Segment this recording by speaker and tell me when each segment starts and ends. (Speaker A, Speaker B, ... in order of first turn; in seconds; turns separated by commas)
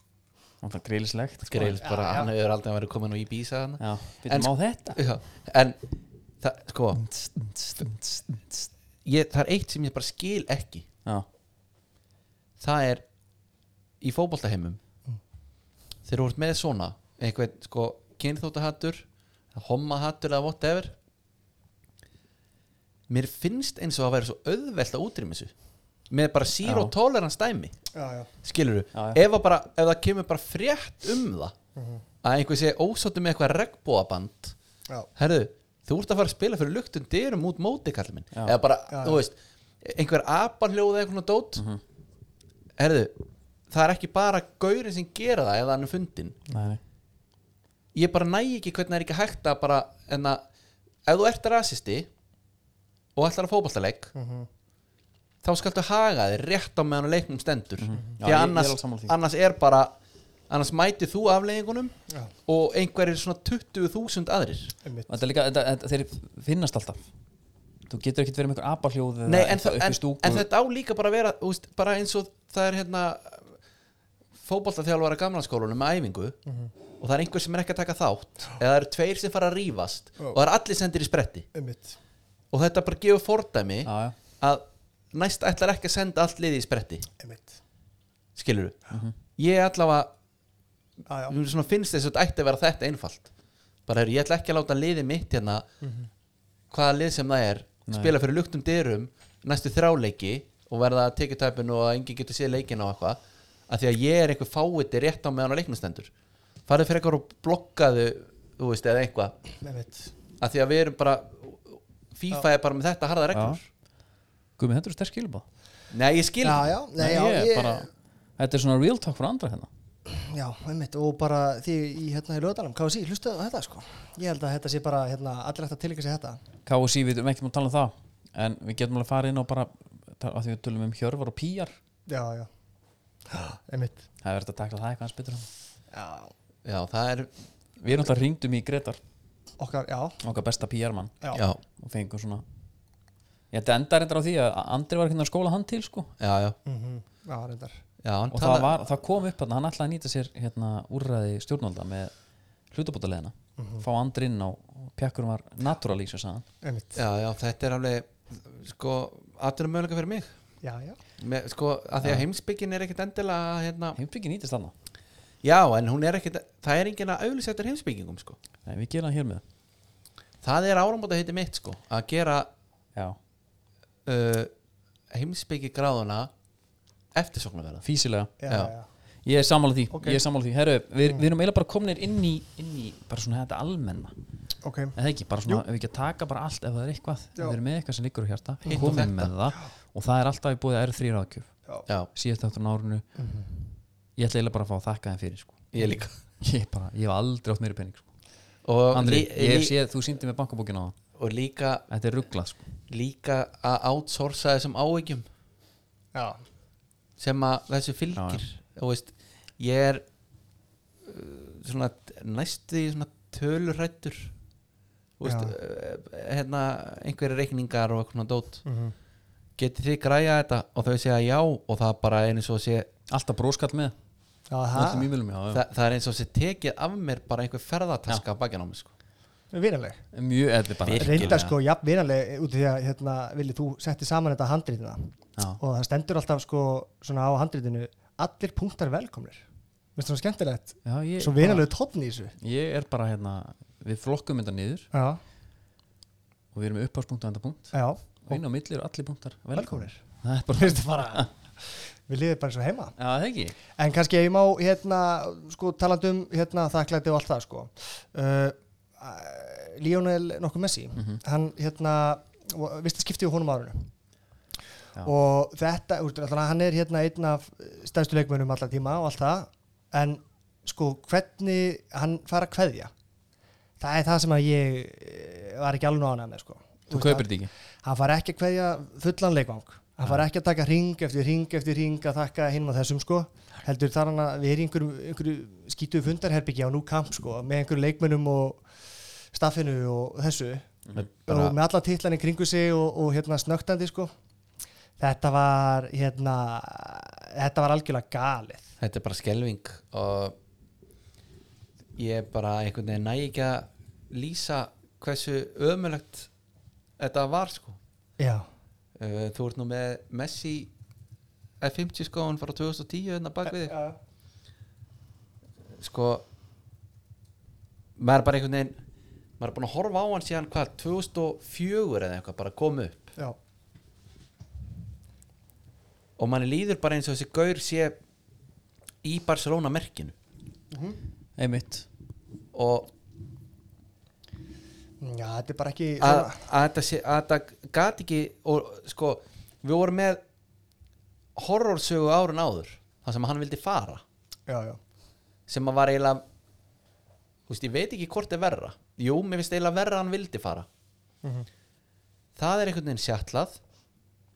Speaker A: 0.6-1.8, Speaker B: 1.5-5.8, Speaker C: 1.8-2.3, Speaker A: 3.8-5.0, Speaker B: 6.4-7.0, Speaker A: 6.9-8.7, Speaker B: 9.0-10.9, Speaker B: 12.6-13.0, Speaker B: 14.0-14.8, Speaker B: 16.1-19.0, Speaker B: 19.5-20.9, Speaker B: 23.1-25.5, Speaker B: 26.1-27.7, Speaker A: 26.6-26.9, Speaker C: 27.9-28.3, Speaker B: 28.4-31.5, Speaker A: 28.9-29.2, Speaker C: 31.8-32.0, Speaker B: 32.2-34.5, Speaker B: 35.1-41.6, Speaker C: 38.9-39.2, Speaker A: 41.5-41.8, Speaker B: 42.8-43.1, Speaker B: 43.7-46.4, Speaker A: 46.5-46.8, Speaker B: 47.9-50.4, Speaker B: 51.0-52.1, Speaker B: 53.1-54.1, Speaker C: 54.1-54.5, Speaker B: 55.4-59.9, Speaker A: 57.8-59.1, Speaker B: 60.5-64.7, Speaker C: 64.8-65.1, Speaker A: 65.1-67.0, Speaker A: 67.9-70.5, Speaker B: 69.2-73.5, Speaker B: 74.4-76.4, Speaker B: 77.0-81.5, Speaker C: 81.5-82.0, Speaker B: 82.5-87.1, Speaker A: 83.8-84.2, Speaker C: 87.2-87.6, Speaker B: 88.3-90.1, Speaker C: 91.1-91.3, Speaker B: 91.3-93.3, Speaker B: 93.9-95.7, Speaker C: 95.8-96.1, Speaker B: 96.7-106.1, Speaker A: 97.9-98.1, Speaker B: 106.7-109.3, Speaker C: 109.6-110.1, Speaker B: 110.4-113.7, Speaker A: 113.3-113.6, Speaker A: 114.6-115.4, Speaker B: 115.9-116.7, Speaker C: 116.4-117.9, Speaker A: 117.0-119.7, Speaker C: 120.1-126.4, Speaker A: 126.7-131.8, Speaker C: 132.1-132.5, Speaker C: 133.3-134.0, Speaker A: 134.2-135.5, Speaker C: 135.9-136.3, Speaker B: 136.6-137.3, Speaker A: 137.8-139.0, Speaker C: 139.6-140.2, Speaker A: 140.2-141.1, Speaker B: 141.3-141.6, Speaker A: 141.8-142.4, Speaker A: 143.5-146.1, Speaker B: 146.2-146.6, Speaker C: 146.7-147.8, Speaker B: 148.0-148.7, Speaker A: 148.3-152.1, Speaker A: 152.7-156.4, Speaker C: 153.6-153.8, Speaker C: 156.6-157.0, Speaker B: 156.9-160.3, Speaker C: 160.6-161.0, Speaker B: 161.2-164.0, Speaker A: 162.0-162.2, Speaker A: 163.9-164.7, Speaker B: 165.4-168.4, Speaker A: 168.7-169.4, Speaker B: 170.4-172.5, Speaker B: 174.1-174.5, Speaker B: 175.1-176.3, Speaker B: 177.1-177.8, Speaker A: 177.8-178.3, Speaker C: 178.4-178.9, Speaker A: 179.2-184.1, Speaker C: 179.9-180.2, Speaker C: 184.6-185.6, Speaker A: 184.9-191.5, Speaker C: 188.6-188.9, Speaker B: 188.7-189.3, Speaker A: 192.1-193.0, Speaker C: 193.2-193.6, Speaker A: 194.2-198.1, Speaker B: 195.7-196.1, Speaker B: 198.6-199.7, Speaker A: 198.9-200.9, Speaker B: 201.2-201.8, Speaker A: 201.9-202.6, Speaker B: 202.9-205.2, Speaker C: 206.1-206.4, Speaker B: 207.2-210.0, Speaker A: 208.1-208.4, Speaker B: 211.0-214.3, Speaker B: 215.2-218.6, Speaker C: 215.2-215.5, Speaker C: 218.6-218.9, Speaker B: 219.6-222.9, Speaker A: 223.1-223.9, Speaker C: 224.5-225.1, Speaker A: 224.7-225.6, Speaker B: 225.5-228.9, Speaker C: 229.5-230.0, Speaker A: 230.1-231.4, Speaker B: 230.8-231.5, Speaker C: 231.0-239.4, Speaker C: 239.9-242.3, Speaker A: 240.8-241.7, Speaker A: 242.4-244.9, Speaker C: 244.9-245.2, Speaker A: 246.5-247.7, Speaker C: 247.7-248.0, Speaker A: 248.2-251.3, Speaker C: 249.5-250.0, Speaker C: 250.5-252.9, Speaker A: 253.0-253.5, Speaker C: 253.8-263.9, Speaker C: 265.0-272.9, Speaker C: 273.8-277.3, Speaker A: 276.9-277.5, Speaker C: 277.8-288.6, Speaker C: 289.3-290.7, Speaker B: 290.9-291.5, Speaker C: 291.3-294.1, Speaker C: 295.0-298.7, Speaker B: 298.8-300.3, Speaker B: 301.9-306.3, Speaker B: 307.0-307.8, Speaker C: 308.2-308.5, Speaker B: 309.0-310.7, Speaker B: 311.6-313.7, Speaker C: 313.4-314.0, Speaker B: 315.8-316.2, Speaker B: 318.0-318.8, Speaker B: 319.4-323.1, Speaker B: 326.2-328.0, Speaker B: 329.0-330.1, Speaker C: 330.7-331.0, Speaker A: 331.4-331.9, Speaker B: 332.5-332.9, Speaker C: 335.0-336.4, Speaker B: 336.0-340.2, Speaker B: 341.4-344.0, Speaker C: 344.5-344.8, Speaker B: 345.5-346.2, Speaker B: 347.5-350.6, Speaker B: 352.4-353.6